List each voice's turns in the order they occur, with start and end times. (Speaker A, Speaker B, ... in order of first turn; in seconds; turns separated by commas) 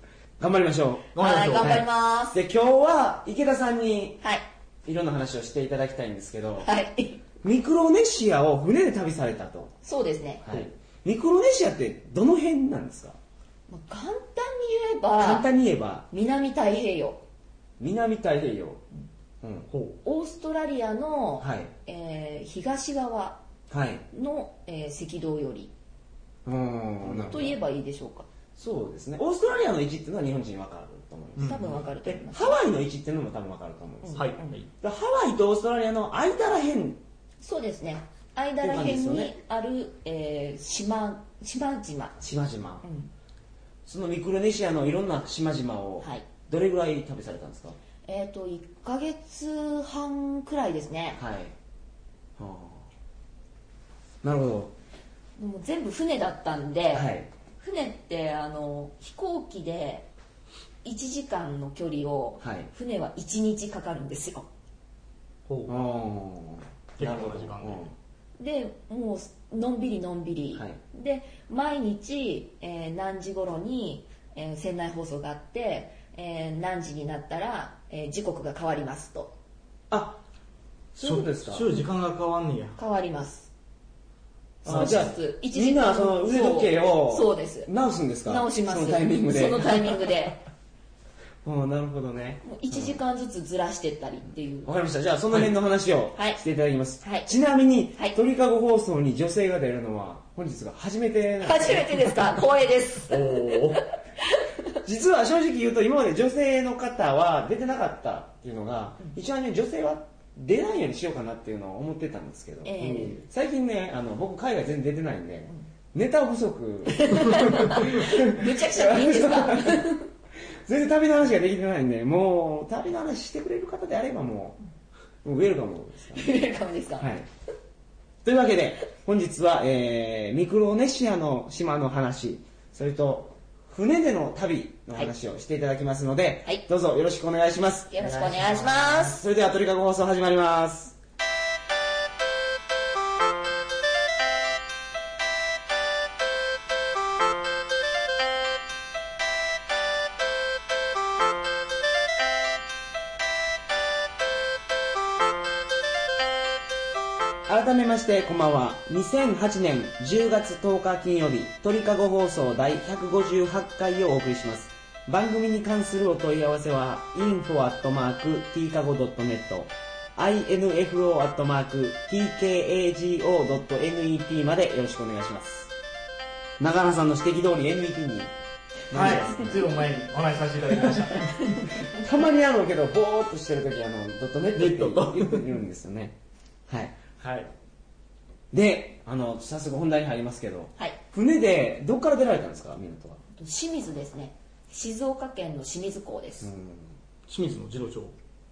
Speaker A: 0.4-4.2, Speaker B: 1.1-1.8, Speaker C: 1.2-2.4, Speaker A: 4.8-6.7, Speaker C: 6.6-7.2, Speaker A: 7.4-9.7, Speaker C: 9.8-10.4, Speaker A: 10.4-13.2, Speaker C: 13.7-15.5, Speaker A: 15.2-16.1, Speaker C: 16.1-17.2, Speaker A: 17.8-18.8, Speaker A: 19.4-19.7, Speaker B: 19.7-20.0, Speaker C: 20.0-23.4, Speaker A: 21.4-21.7, Speaker A: 23.7-24.0, Speaker C: 24.1-25.7, Speaker A: 26.4-27.6, Speaker C: 27.2-28.3, Speaker A: 28.6-34.3, Speaker B: 31.4-31.8, Speaker C: 31.4-32.6, Speaker C: 34.0-34.6, Speaker B: 34.1-34.7, Speaker A: 34.8-37.0, Speaker C: 37.4-42.2, Speaker A: 38.6-39.3, Speaker A: 42.2-42.8, Speaker C: 42.8-43.1, Speaker A: 43.9-47.8, Speaker C: 48.0-51.2, Speaker A: 51.2-51.5, Speaker A: 52.4-52.9, Speaker A: 54.2-54.7, Speaker C: 55.4-60.1, Speaker A: 56.9-57.3, Speaker C: 60.8-64.5, Speaker A: 62.4-62.7, Speaker B: 65.5-65.7, Speaker A: 65.7-67.9, Speaker B: 67.0-67.9, Speaker C: 68.4-79.3, Speaker A: 79.9-80.2, Speaker A: 80.9-81.7, Speaker B: 81.0-82.8, Speaker C: 82.8-83.5, Speaker A: 84.6-89.9, Speaker B: 84.6-85.1, Speaker C: 84.7-87.7, Speaker C: 88.2-90.4, Speaker A: 91.4-93.0, Speaker C: 92.4-94.7, Speaker A: 94.6-102.4, Speaker C: 96.2-96.4, Speaker C: 97.0-97.3, Speaker C: 101.4-104.6, Speaker B: 103.1-103.8, Speaker A: 104.8-119.9, Speaker C: 112.6-113.2, Speaker B: 112.8-113.2, Speaker C: 116.9-120.1, Speaker A: 120.7-124.6, Speaker A: 125.2-126.4, Speaker C: 126.1-127.1, Speaker A: 127.0-127.3, Speaker A: 128.2-140.9, Speaker C: 137.9-139.2, Speaker A: 157.5-175.7, Speaker A: 176.6-178.3, Speaker A: 178.9-179.7, Speaker B: 178.9-181.7, Speaker A: 181.8-186.2, Speaker B: 184.6-185.4, Speaker A: 186.7-186.9, Speaker B: 187.2-187.5, Speaker A: 188.5-193.2, Speaker C: 193.3-196.5, Speaker A: 196.4-196.9, Speaker B: 197.3-198.1